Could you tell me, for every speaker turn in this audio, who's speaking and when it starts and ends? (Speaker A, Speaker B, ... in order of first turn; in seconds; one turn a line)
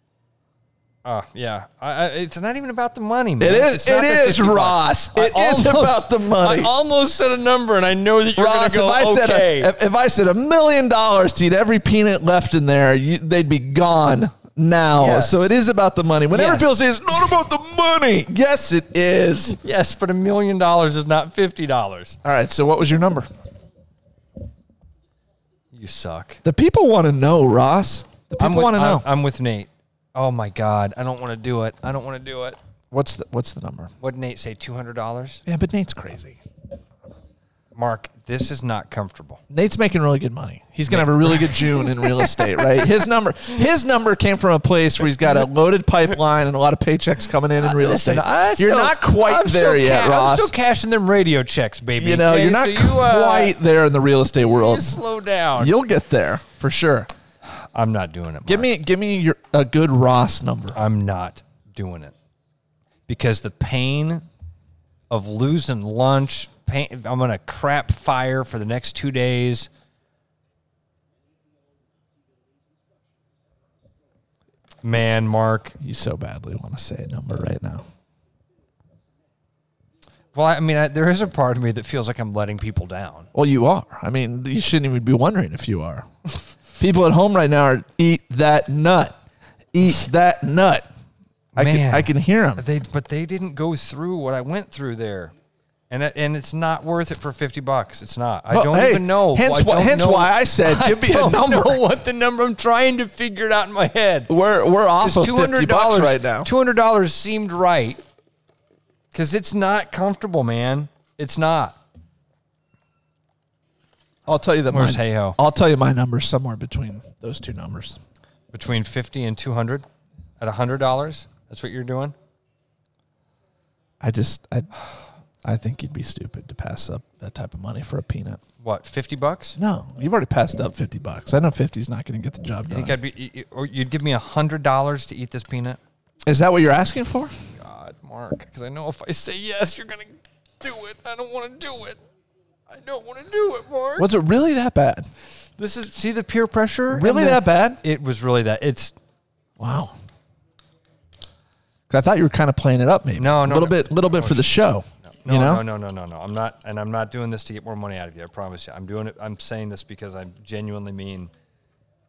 Speaker A: 1.1-9.7
Speaker B: 3.4-6.7
Speaker B: 8.3-19.6
Speaker A: 15.0-15.5
Speaker A: 16.3-16.8
Speaker A: 19.5-22.2
Speaker B: 22.2-23.3
Speaker A: 25.7-26.4
Speaker B: 26.4-29.1
Speaker A: 28.4-32.6
Speaker B: 32.9-33.9
Speaker A: 34.0-35.4
Speaker B: 35.5-36.4
Speaker A: 37.7-39.4
Speaker B: 39.5-50.5
Speaker A: 40.9-42.4
Speaker A: 47.6-53.5
Speaker B: 52.0-55.0
Speaker A: 54.4-55.7
Speaker B: 55.6-57.1
Speaker A: 57.5-58.7
Speaker B: 58.5-60.8
Speaker A: 60.7-62.1
Speaker A: 63.1-64.2
Speaker A: 65.1-69.7
Speaker A: 74.8-75.8
Speaker B: 75.8-77.8
Speaker A: 80.3-83.3
Speaker B: 83.3-86.1
Speaker B: 86.8-89.1
Speaker B: 89.7-90.9
Speaker A: 91.5-95.3
Speaker B: 91.6-92.6
Speaker A: 95.9-104.3
Speaker B: 98.5-101.8
Speaker B: 104.3-106.5
Speaker A: 105.0-108.0
Speaker A: 109.1-111.8
Speaker B: 114.3-118.0
Speaker A: 114.7-115.4
Speaker A: 118.5-119.9
Speaker A: 120.4-122.1
Speaker B: 124.0-124.7
Speaker B: 125.4-128.4
Speaker A: 128.6-129.6
Speaker B: 129.6-132.9
Speaker A: 132.7-135.8
Speaker B: 136.3-137.3
Speaker A: 137.6-142.0
Speaker A: 142.7-144.1
Speaker B: 144.0-145.1
Speaker A: 145.6-148.9
Speaker B: 146.9-147.8
Speaker B: 149.6-149.9
Speaker B: 151.9-155.6
Speaker A: 153.2-154.5
Speaker A: 155.1-161.3